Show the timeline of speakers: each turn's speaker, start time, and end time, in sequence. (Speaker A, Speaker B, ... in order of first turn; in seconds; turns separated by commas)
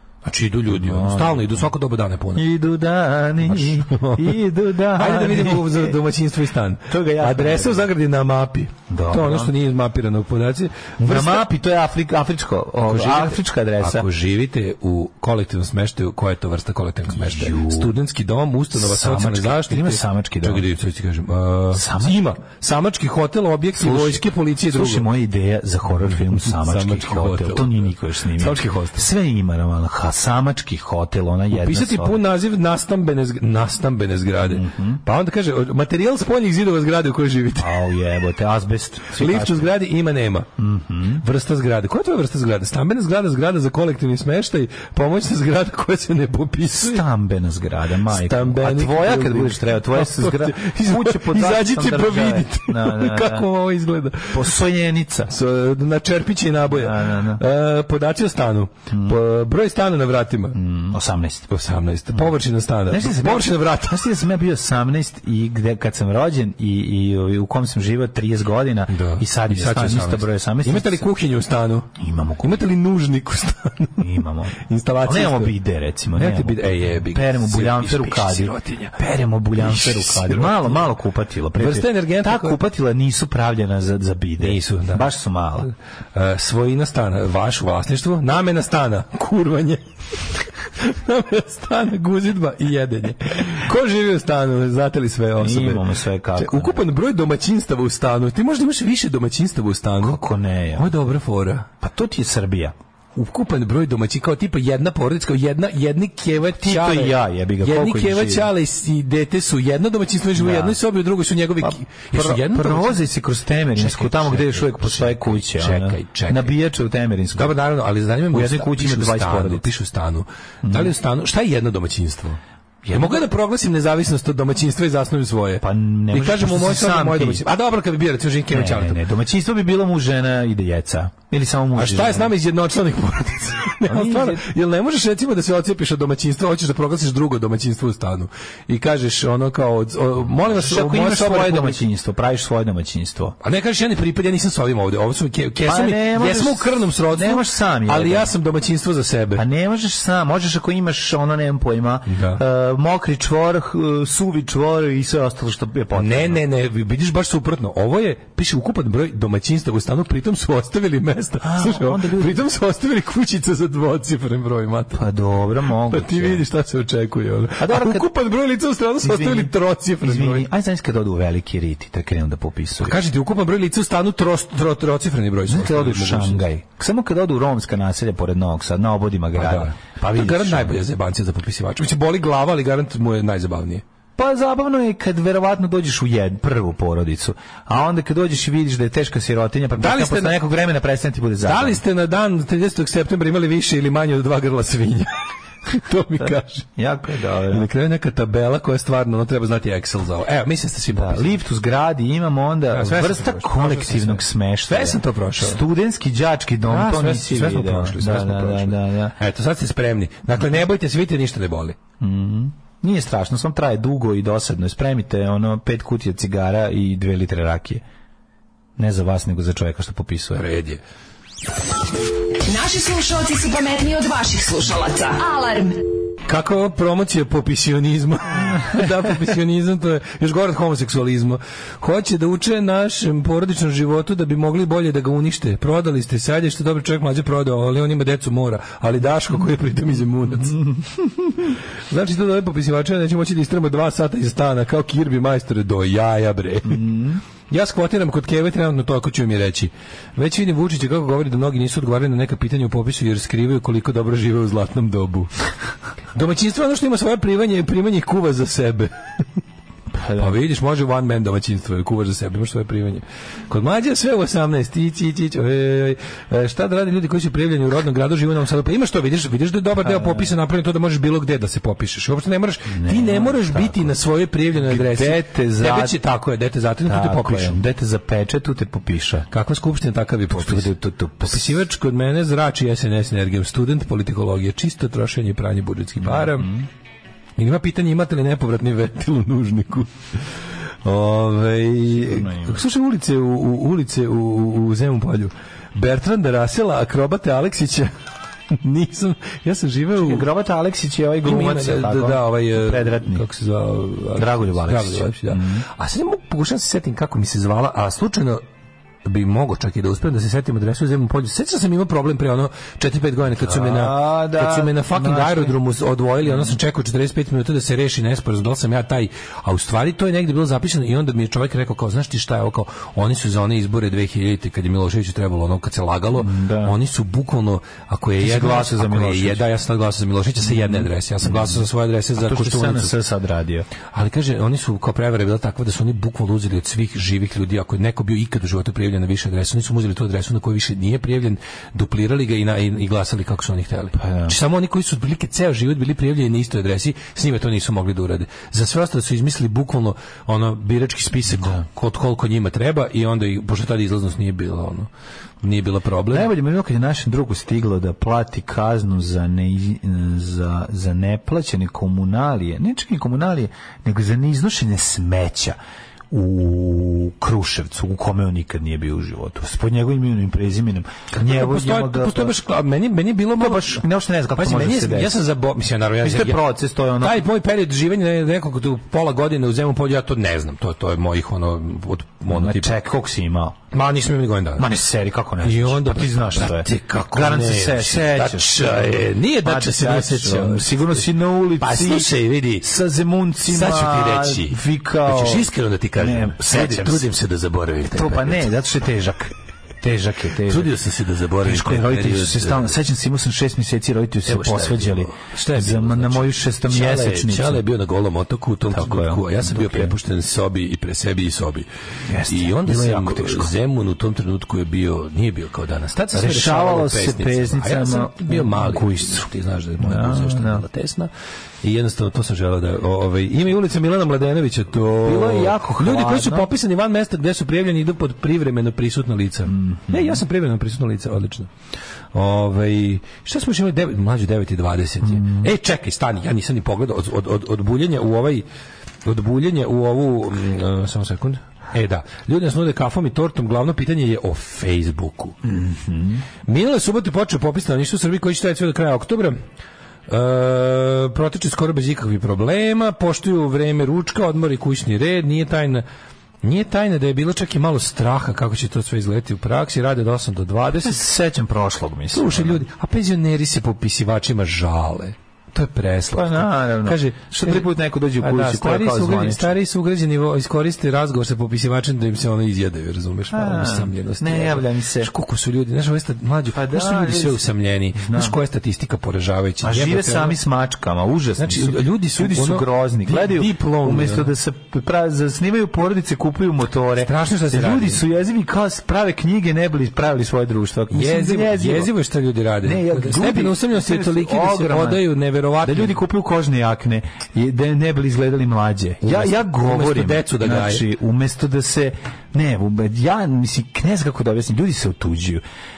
Speaker A: 0.2-2.4, Speaker B: 0.7-1.7, Speaker B: 2.4-5.9, Speaker A: 3.5-4.4, Speaker A: 4.9-11.5, Speaker B: 6.9-7.9, Speaker B: 8.9-9.5, Speaker B: 11.0-14.1, Speaker A: 12.8-25.1, Speaker B: 17.1-18.0, Speaker B: 18.7-20.7, Speaker B: 21.7-22.3, Speaker B: 23.8-32.2, Speaker A: 26.3-29.0, Speaker A: 31.5-37.8, Speaker B: 34.4-35.0, Speaker B: 37.6-39.7, Speaker A: 39.1-40.5, Speaker B: 40.6-41.2, Speaker A: 41.2-47.0, Speaker B: 46.7-53.5, Speaker A: 48.1-54.5, Speaker B: 54.3-55.3, Speaker A: 55.3-60.6, Speaker B: 56.7-57.4, Speaker B: 58.9-59.2, Speaker B: 60.5-61.5, Speaker A: 61.5-64.0, Speaker B: 62.9-71.0, Speaker A: 68.9-74.0, Speaker B: 72.0-72.7, Speaker B: 74.0-85.7, Speaker A: 74.6-75.6, Speaker A: 76.2-79.0, Speaker A: 79.6-80.8, Speaker A: 81.6-82.6, Speaker A: 84.4-85.1, Speaker A: 85.7-95.9, Speaker B: 95.4-96.9, Speaker A: 96.4-100.2, Speaker B: 100.0-100.9, Speaker A: 100.8-101.7, Speaker B: 101.8-102.8, Speaker A: 103.2-113.0, Speaker B: 106.5-108.5, Speaker B: 110.4-110.8, Speaker B: 111.6-117.6, Speaker A: 113.8-116.5, Speaker A: 117.3-122.4, Speaker B: 118.3-119.7, Speaker B: 120.7-120.9, Speaker B: 122.8-123.3, Speaker A: 122.9-129.0, Speaker B: 125.6-127.4, Speaker B: 128.5-132.3, Speaker A: 131.8-141.8, Speaker B: 133.8-134.5, Speaker B: 140.4-143.4, Speaker A: 143.4-149.4, Speaker B: 145.7-148.3, Speaker B: 149.3-156.4, Speaker A: 152.1-152.4, Speaker A: 155.9-165.1, Speaker B: 161.4-162.4, Speaker B: 164.9-166.4, Speaker A: 165.9-170.5, Speaker B: 167.6-168.1, Speaker B: 169.0-173.0, Speaker A: 172.8-176.4, Speaker B: 175.5-180.8, Speaker A: 179.3-183.8, Speaker B: 184.2-191.8, Speaker A: 189.8-190.4, Speaker A: 191.4-196.7, Speaker B: 196.8-197.7, Speaker A: 197.5-201.4, Speaker B: 200.9-209.2, Speaker A: 202.7-205.6, Speaker A: 206.7-211.8, Speaker B: 212.0-217.8, Speaker B: 218.8-220.4, Speaker A: 220.3-220.8, Speaker C: 222.4-225.8, Speaker A: 226.3-240.6, Speaker B: 240.4-241.3, Speaker A: 241.9-246.8, Speaker B: 246.7-247.2, Speaker A: 247.5-255.3, Speaker A: 256.1-258.9, Speaker B: 260.0-260.4, Speaker A: 260.2-277.6, Speaker B: 269.8-270.3, Speaker B: 272.7-274.0, Speaker B: 274.6-276.0, Speaker B: 276.8-279.3, Speaker A: 279.3-286.5, Speaker B: 280.3-281.6, Speaker B: 286.0-286.7, Speaker A: 287.4-289.9, Speaker A: 290.9-297.9, Speaker B: 291.9-292.6, Speaker A: 298.6-300.2, Speaker B: 299.9-303.2, Speaker A: 301.2-308.4, Speaker B: 304.2-305.6, Speaker A: 309.0-332.9, Speaker B: 313.3-315.6, Speaker B: 316.2-316.5, Speaker B: 326.2-326.8, Speaker B: 328.2-329.4, Speaker B: 330.4-331.6, Speaker B: 332.1-333.7, Speaker A: 333.9-354.9, Speaker B: 344.0-344.4, Speaker B: 351.3-351.6, Speaker A: 355.4-356.3, Speaker B: 356.1-365.6, Speaker B: 366.1-372.4, Speaker A: 371.2-376.4, Speaker B: 373.3-375.2, Speaker B: 376.0-377.2, Speaker A: 377.0-382.8, Speaker B: 382.3-383.6, Speaker A: 383.7-384.7, Speaker B: 384.6-397.1, Speaker A: 385.4-392.7, Speaker A: 393.4-398.5, Speaker B: 397.9-400.7, Speaker A: 400.5-402.8, Speaker B: 401.4-407.6, Speaker A: 404.3-411.7, Speaker B: 408.7-409.9, Speaker B: 412.1-413.5, Speaker A: 412.3-421.1, Speaker B: 416.1-419.3, Speaker B: 419.8-420.6, Speaker A: 421.6-431.5, Speaker B: 425.0-426.5, Speaker B: 429.5-430.2, Speaker A: 432.1-438.4, Speaker B: 435.0-435.5, Speaker A: 439.1-445.4, Speaker B: 445.4-446.2, Speaker A: 446.5-449.4, Speaker A: 450.1-455.9, Speaker A: 456.4-461.1, Speaker B: 460.8-462.6, Speaker A: 462.1-467.7, Speaker B: 466.1-469.5, Speaker A: 468.2-480.4, Speaker B: 473.3-475.1, Speaker B: 476.5-478.4, Speaker B: 479.6-491.9, Speaker A: 481.4-484.3, Speaker A: 487.0-488.0, Speaker A: 490.9-496.0, Speaker B: 492.6-495.1, Speaker B: 495.6-505.4, Speaker A: 499.0-500.9